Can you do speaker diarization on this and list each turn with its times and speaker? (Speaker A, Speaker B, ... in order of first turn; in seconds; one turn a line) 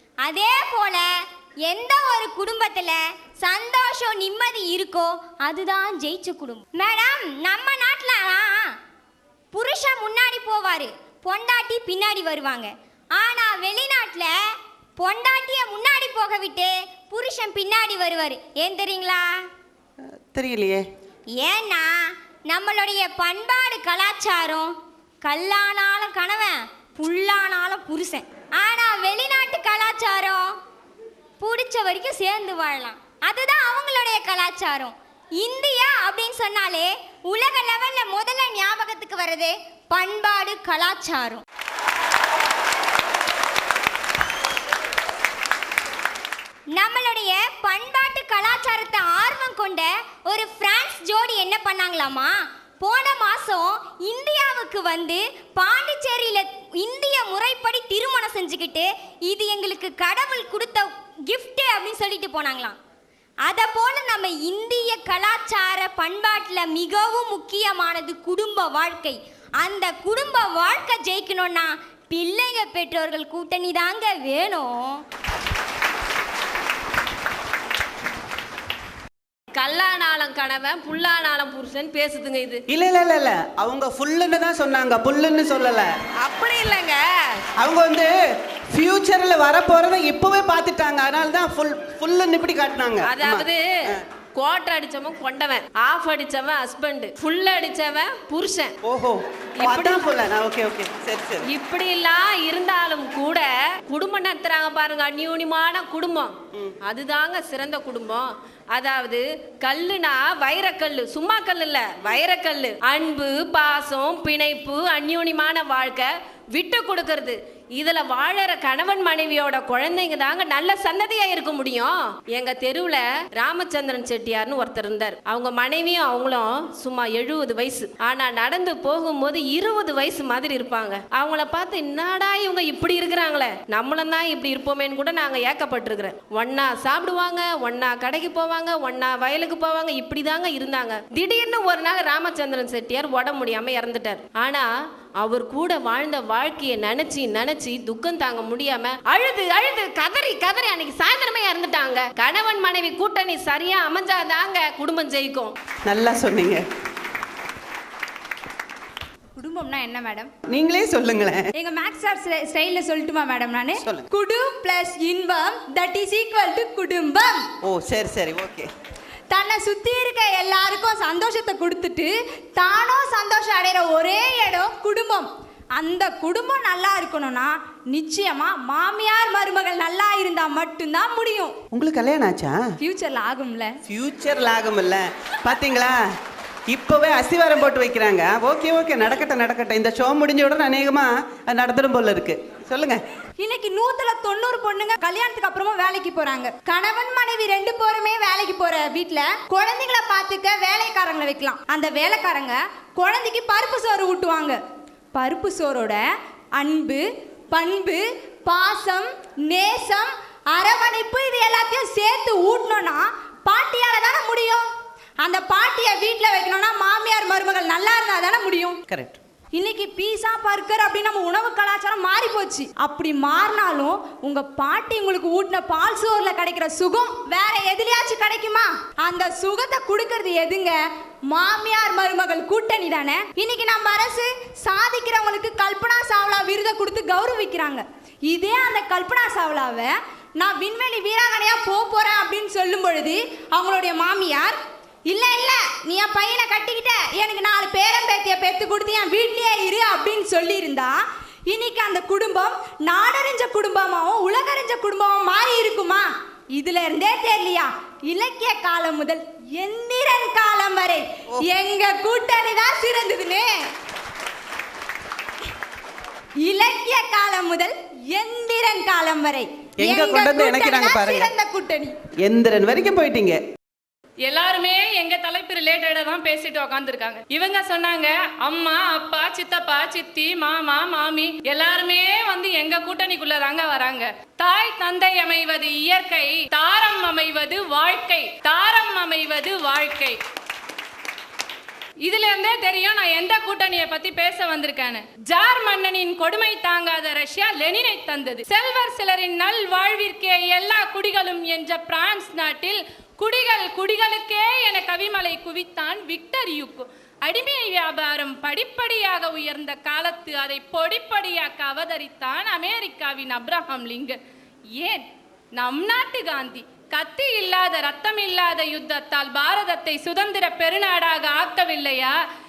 Speaker A: 0.2-8.8
Speaker A: 9.5-19.5
Speaker B: 20.3-20.9
Speaker A: 21.3-30.6
Speaker A: 31.4-41.4
Speaker A: 46.7-62.8
Speaker A: 63.5-75.0
Speaker C: 79.5-82.6
Speaker B: 82.7-85.9
Speaker C: 86.2-87.4
Speaker B: 87.6-88.1
Speaker B: 88.7-94.0
Speaker C: 93.0-93.6
Speaker C: 94.3-98.7
Speaker B: 98.8-101.5
Speaker C: 99.6-100.2
Speaker C: 101.5-144.7
Speaker C: 145.2-155.5
Speaker B: 155.9-156.6
Speaker D: 159.4-160.3
Speaker B: 160.5-161.5
Speaker D: 161.6-167.5
Speaker B: 163.8-164.1
Speaker B: 167.6-168.7
Speaker D: 169.3-181.6
Speaker B: 181.7-182.6
Speaker D: 182.8-183.7
Speaker B: 183.9-186.0
Speaker B: 186.7-193.0
Speaker D: 193.4-204.6
Speaker D: 205.1-206.0
Speaker D: 206.6-214.7
Speaker D: 215.2-218.8
Speaker B: 218.9-219.2
Speaker D: 219.5-230.8
Speaker D: 231.3-263.7
Speaker D: 266.4-271.9
Speaker B: 269.8-271.3
Speaker B: 272.2-273.4
Speaker E: 274.2-290.2
Speaker E: 292.0-314.2
Speaker E: 314.8-322.1